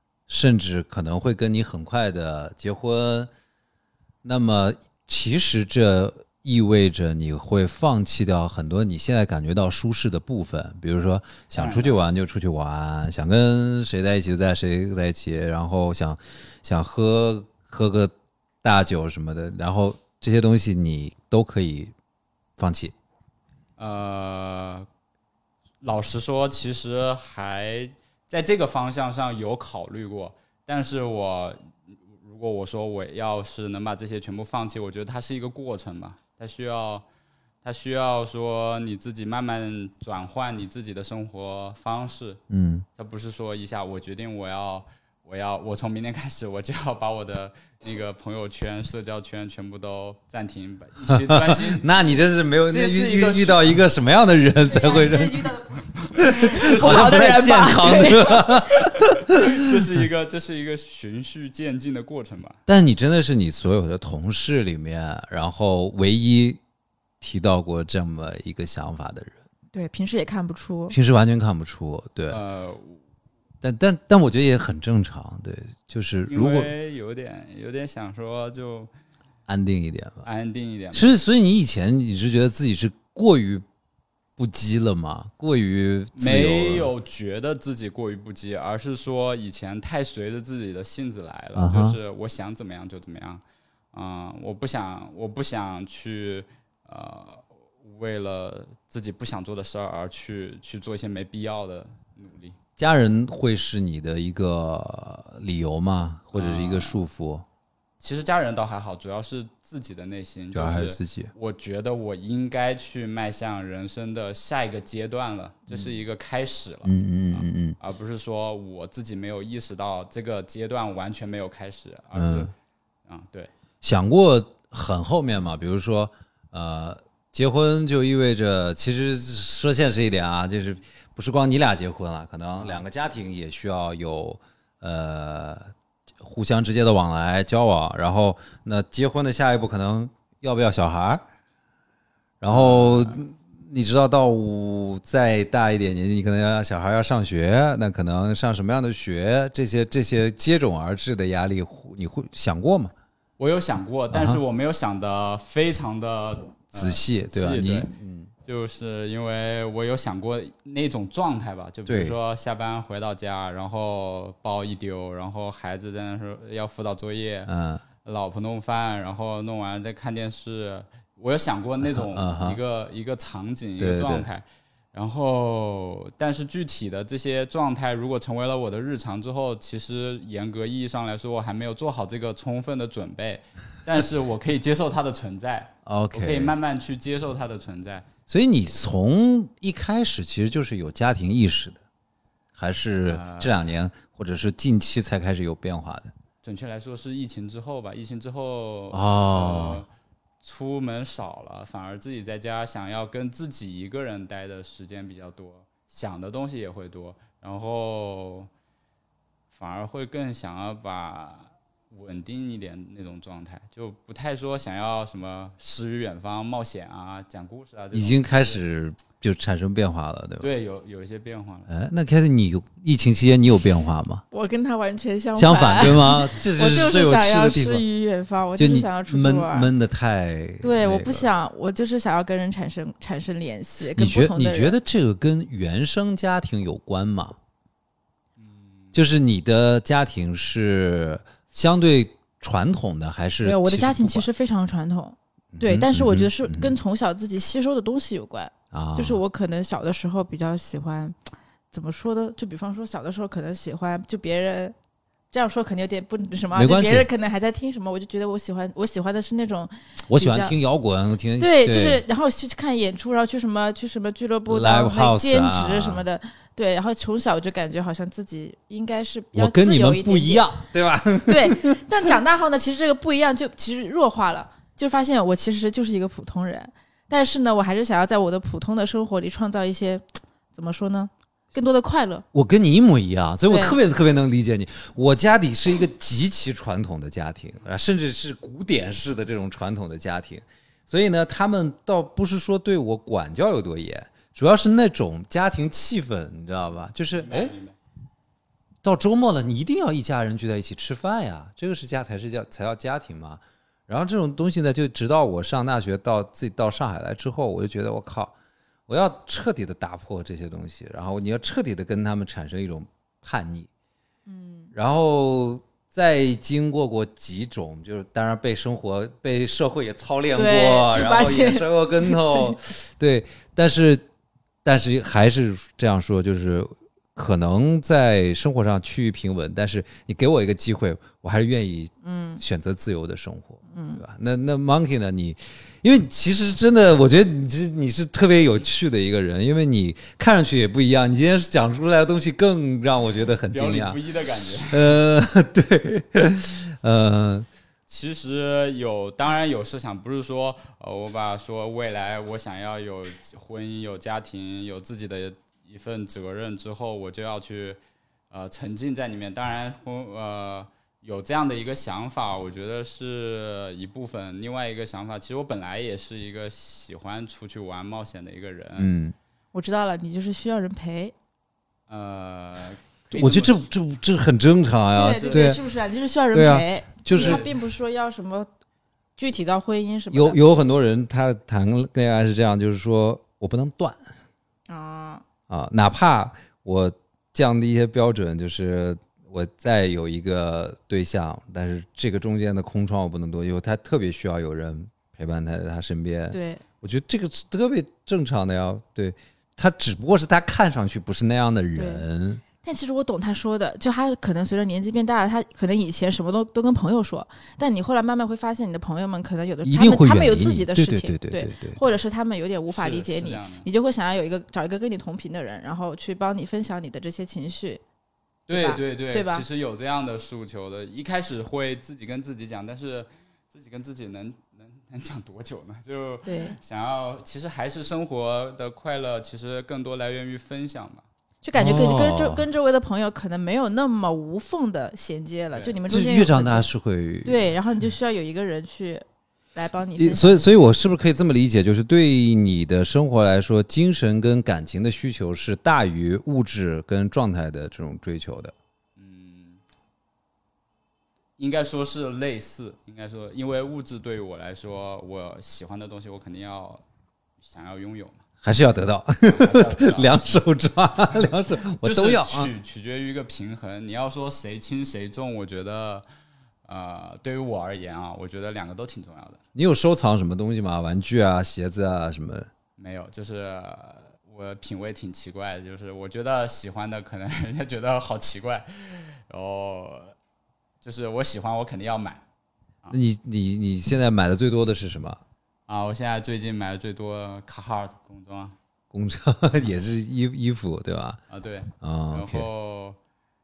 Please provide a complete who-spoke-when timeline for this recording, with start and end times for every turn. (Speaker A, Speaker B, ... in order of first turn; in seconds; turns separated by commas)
Speaker A: 0.3-3.3, Speaker A: 4.2-21.9, Speaker B: 11.5-12.0, Speaker A: 22.6-22.9, Speaker B: 23.8-24.9, Speaker B: 25.8-31.7, Speaker B: 32.2-37.0, Speaker B: 37.6-42.4, Speaker A: 42.5-42.9, Speaker B: 43.0-51.9, Speaker A: 51.0-55.6, Speaker B: 52.7-53.8, Speaker C: 54.7-55.7, Speaker A: 56.1-59.5, Speaker C: 56.4-58.6, Speaker B: 56.5-57.3, Speaker B: 58.9-62.6, Speaker A: 62.7-66.6, Speaker A: 67.2-69.4, Speaker C: 69.7-71.0, Speaker A: 70.9-72.4, Speaker B: 72.3-73.0, Speaker A: 73.6-76.7, Speaker B: 76.3-78.9, Speaker A: 79.5-80.3, Speaker B: 80.2-81.1, Speaker A: 80.9-83.7, Speaker A: 84.4-86.9, Speaker B: 86.2-93.4, Speaker A: 91.5-92.0, Speaker B: 93.9-102.6, Speaker A: 102.8-107.5, Speaker B: 106.3-107.0, Speaker B: 108.0-122.5, Speaker A: 110.5-111.3, Speaker A: 115.7-116.0, Speaker A: 116.8-117.8, Speaker A: 122.2-122.5, Speaker B: 123.1-123.5, Speaker A: 123.8-135.7, Speaker A: 136.2-141.2, Speaker A: 142.4-152.9, Speaker B: 142.5-143.2, Speaker B: 153.4-157.9, Speaker A: 154.1-154.4, Speaker A: 156.7-158.3, Speaker B: 158.4-167.5, Speaker A: 161.9-162.2, Speaker A: 167.5-167.8, Speaker B: 168.0-188.1, Speaker A: 171.8-172.6, Speaker A: 173.8-174.3, Speaker A: 185.9-186.6, Speaker A: 188.3-191.8, Speaker A: 192.6-196.1, Speaker B: 193.1-193.6, Speaker B: 196.4-199.9, Speaker A: 198.9-199.8, Speaker B: 200.4-208.5, Speaker B: 209.5-218.6, Speaker A: 217.9-220.5, Speaker B: 220.4-221.7, Speaker A: 221.7-224.2, Speaker C: 224.3-229.7, Speaker A: 225.4-227.8, Speaker A: 228.6-231.3, Speaker C: 230.6-234.8, Speaker A: 233.9-237.4, Speaker B: 238.4-238.9, Speaker A: 238.9-244.3, Speaker C: 243.4-251.2, Speaker A: 245.5-246.8, Speaker A: 248.7-249.2, Speaker C: 251.7-254.8, Speaker C: 255.3-260.6, Speaker A: 256.5-257.1, Speaker A: 260.1-262.0, Speaker C: 261.4-270.5, Speaker A: 264.5-266.0, Speaker A: 269.3-272.1, Speaker C: 271.3-282.2, Speaker A: 282.3-297.5, Speaker C: 283.5-283.8, Speaker B: 297.1-297.8, Speaker A: 298.8-308.3, Speaker A: 308.9-313.7, Speaker C: 314.3-314.7, Speaker A: 314.7-324.1, Speaker C: 320.4-322.6, Speaker A: 324.6-344.0, Speaker C: 332.0-332.4, Speaker C: 333.7-334.0, Speaker B: 343.5-345.0, Speaker A: 344.6-347.5, Speaker B: 347.9-357.8, Speaker B: 358.3-368.9, Speaker A: 368.8-369.2, Speaker C: 369.5-371.1, Speaker B: 371.9-373.7, Speaker A: 373.1-375.6, Speaker C: 374.9-378.5, Speaker B: 375.1-375.5, Speaker A: 376.3-377.4, Speaker B: 377.1-377.4, Speaker C: 379.2-380.4, Speaker A: 380.1-384.1, Speaker C: 384.7-385.2, Speaker A: 385.5-402.4, Speaker C: 396.3-396.6, Speaker C: 401.8-402.0, Speaker C: 402.6-417.8, Speaker A: 409.6-411.8, Speaker B: 412.7-413.7, Speaker B: 418.5-431.0, Speaker C: 418.5-419.4, Speaker C: 426.2-426.6, Speaker C: 431.4-436.7, Speaker A: 431.6-432.5, Speaker B: 435.5-435.8, Speaker A: 435.9-437.5, Speaker C: 437.2-440.5, Speaker A: 440.0-448.5, Speaker B: 449.0-449.6, Speaker B: 451.4-456.8, Speaker B: 457.4-458.2, Speaker A: 458.4-462.5, Speaker B: 459.2-460.4, Speaker B: 461.8-466.1, Speaker B: 466.6-469.4, Speaker A: 469.6-472.5, Speaker B: 472.8-480.1, Speaker B: 480.8-482.2, Speaker A: 482.9-485.2, Speaker B: 485.7-488.6, Speaker A: 488.9-491.2, Speaker B: 491.3-493.0, Speaker A: 491.8-492.5